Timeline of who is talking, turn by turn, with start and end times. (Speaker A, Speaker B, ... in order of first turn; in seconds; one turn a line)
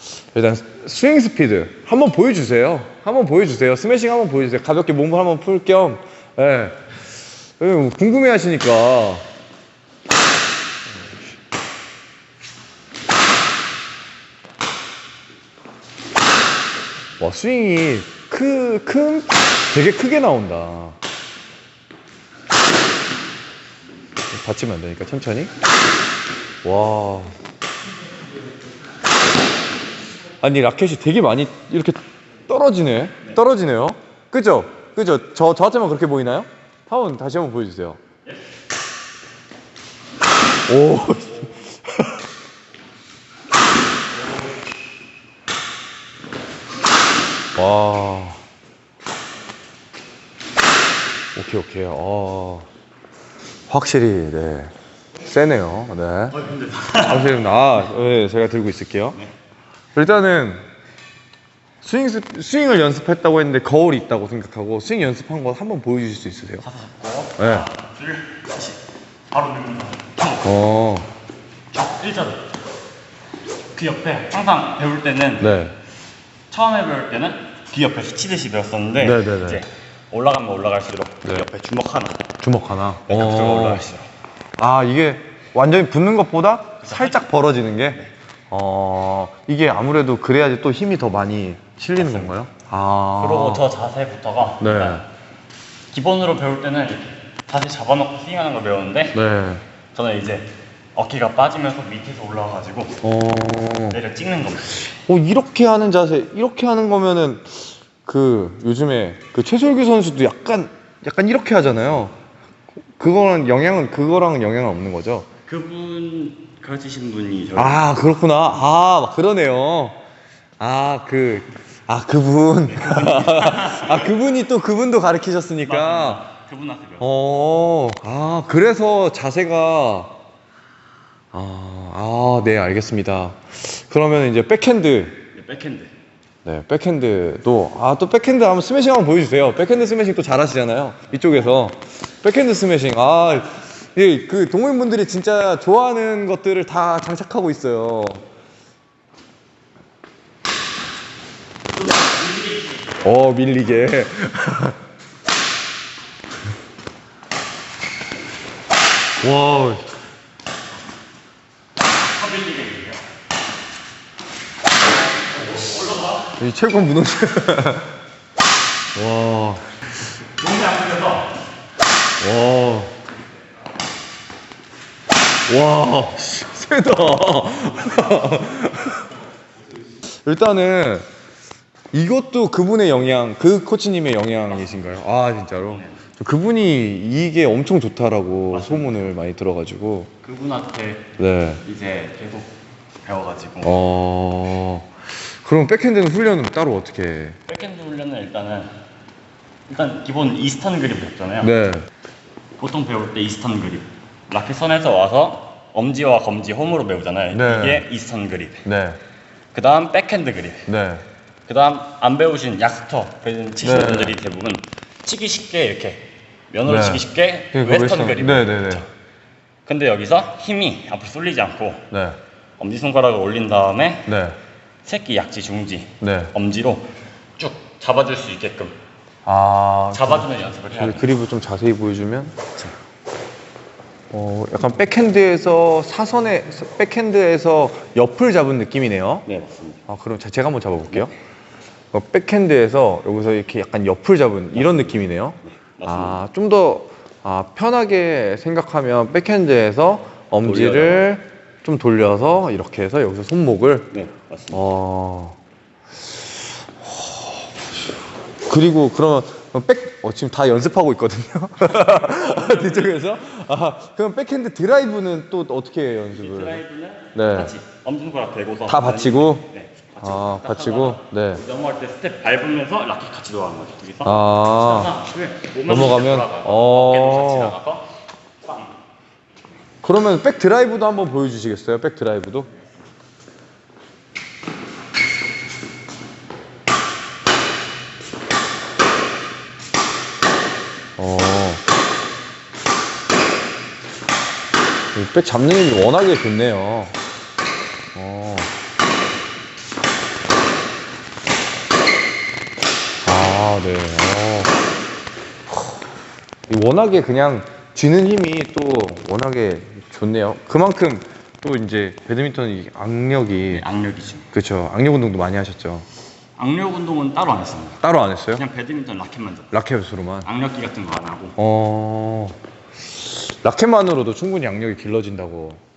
Speaker A: 0.3-6.8
Speaker A: 7.6-9.3
Speaker A: 17.2-21.0
Speaker A: 24.3-25.5
Speaker A: 26.6-27.4
Speaker A: 30.4-38.0
Speaker A: 40.7-42.1
Speaker A: 47.6-48.4
Speaker A: 51.4-52.7
Speaker A: 53.7-54.7
Speaker A: 55.2-56.4
Speaker B: 56.3-57.5
Speaker A: 57.0-59.2
Speaker A: 60.0-60.6
Speaker A: 61.8-66.7
Speaker B: 66.6-68.8
Speaker A: 67.4-67.7
Speaker B: 69.3-70.5
Speaker A: 70.4-71.1
Speaker B: 71.7-72.4
Speaker B: 73.7-75.7
Speaker A: 75.4-75.8
Speaker B: 76.5-82.3
Speaker A: 79.0-79.6
Speaker A: 82.4-83.9
Speaker B: 83.1-84.1
Speaker A: 84.6-93.6
Speaker B: 86.8-87.3
Speaker B: 92.0-92.3
Speaker B: 93.2-95.0
Speaker A: 94.6-95.0
Speaker B: 95.9-99.2
Speaker A: 99.1-99.6
Speaker B: 99.9-103.0
Speaker A: 103.0-104.0
Speaker B: 103.9-104.9
Speaker A: 105.1-112.2
Speaker A: 113.0-115.3
Speaker B: 115.5-117.8
Speaker A: 117.6-120.0
Speaker A: 120.6-126.2
Speaker B: 122.7-124.2
Speaker B: 125.6-127.1
Speaker A: 127.0-130.1
Speaker A: 131.3-135.2
Speaker B: 135.3-135.9
Speaker A: 136.4-148.2
Speaker B: 151.9-153.1
Speaker A: 153.0-154.8
Speaker A: 159.2-159.9
Speaker B: 162.1-163.0
Speaker B: 165.4-166.3
Speaker A: 166.4-167.9
Speaker A: 168.9-169.7
Speaker B: 170.4-171.4
Speaker A: 172.2-172.9
Speaker A: 175.5-179.1
Speaker A: 180.2-181.1
Speaker A: 181.9-190.1
Speaker B: 184.5-186.0
Speaker B: 188.5-189.1
Speaker B: 190.2-193.8
Speaker A: 191.2-191.6
Speaker A: 193.6-194.9
Speaker A: 195.4-197.4
Speaker B: 197.5-198.7
Speaker B: 199.7-201.5
Speaker A: 201.4-201.9
Speaker B: 202.6-208.6
Speaker A: 207.3-207.9
Speaker A: 208.7-209.0
Speaker B: 209.5-210.7
Speaker A: 210.7-211.0
Speaker B: 211.5-218.9
Speaker A: 213.6-214.2
Speaker A: 216.7-218.9
Speaker B: 219.7-221.9
Speaker A: 221.9-222.2
Speaker B: 222.6-224.2
Speaker A: 224.1-224.4
Speaker B: 224.8-228.8
Speaker A: 226.0-226.3
Speaker A: 229.3-232.4
Speaker B: 229.9-231.1
Speaker A: 234.1-239.3
Speaker B: 239.3-239.8
Speaker A: 239.9-241.1
Speaker A: 241.9-253.9
Speaker B: 244.5-245.0
Speaker B: 245.6-246.2
Speaker B: 250.4-251.1
Speaker B: 253.9-254.6
Speaker A: 254.5-255.4
Speaker A: 256.8-257.5
Speaker A: 258.5-266.6
Speaker B: 261.8-263.1
Speaker B: 266.1-277.9
Speaker A: 267.1-267.5
Speaker A: 268.7-269.5
Speaker A: 270.0-271.4
Speaker A: 274.0-274.9
Speaker A: 275.7-277.6
Speaker A: 279.8-282.5
Speaker A: 291.0-291.6
Speaker A: 294.9-296.9
Speaker A: 297.9-298.5
Speaker A: 303.0-304.5
Speaker A: 306.5-313.6
Speaker B: 313.5-314.3
Speaker A: 314.3-315.9
Speaker B: 316.4-319.5
Speaker A: 317.8-318.4
Speaker A: 319.5-320.3
Speaker B: 320.2-321.4
Speaker A: 321.4-322.4
Speaker A: 323.1-325.6